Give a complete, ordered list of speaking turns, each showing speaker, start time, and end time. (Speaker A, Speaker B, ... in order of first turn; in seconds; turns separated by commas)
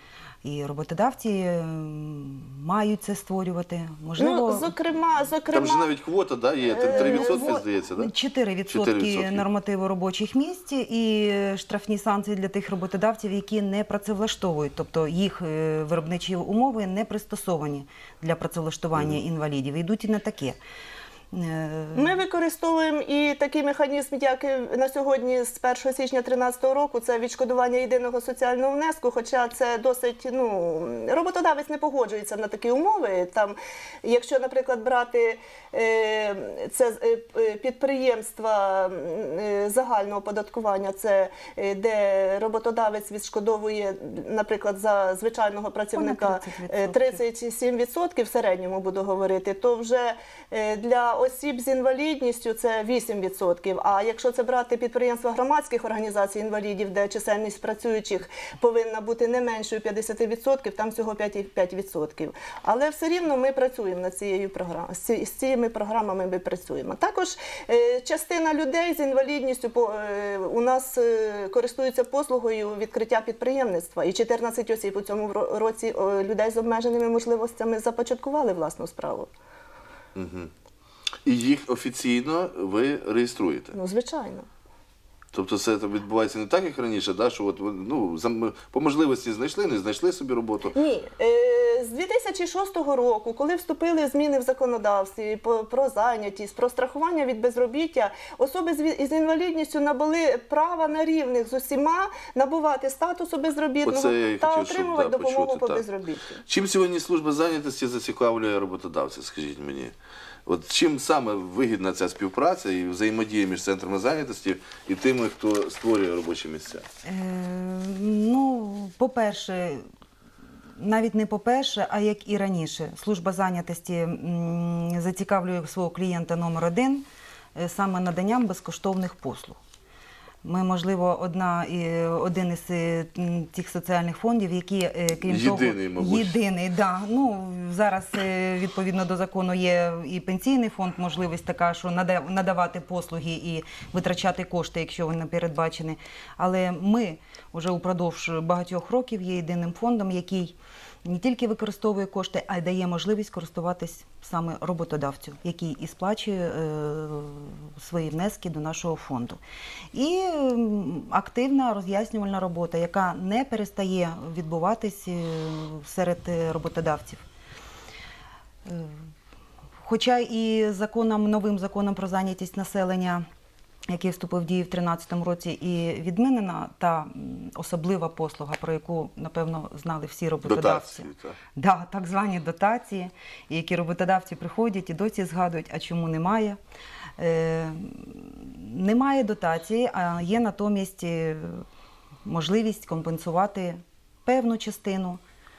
Speaker A: 0.4-4.7, Speaker B: 4.2-5.9, Speaker C: 5.5-8.1, Speaker B: 6.7-7.6, Speaker A: 6.8-20.6, Speaker C: 8.7-9.4, Speaker A: 21.3-22.2, Speaker B: 21.9-79.3, Speaker A: 46.0-47.2, Speaker C: 80.2-80.5, Speaker C: 81.2-83.8, Speaker B: 83.7-84.5, Speaker C: 85.3-90.7, Speaker B: 90.7-106.4, Speaker C: 103.8-105.8, Speaker C: 106.5-109.9, Speaker C: 110.5-116.8, Speaker A: 117.0-119.9, Speaker A: 120.8-127.0, Speaker A: 127.5-129.6, Speaker A: 130.4-159.4, Speaker C: 135.3-136.3, Speaker A: 159.9-167.2, Speaker A: 168.7-169.1, Speaker A: 169.8-173.3, Speaker A: 173.9-186.6, Speaker C: 180.4-181.4, Speaker A: 187.2-191.7, Speaker A: 192.2-195.2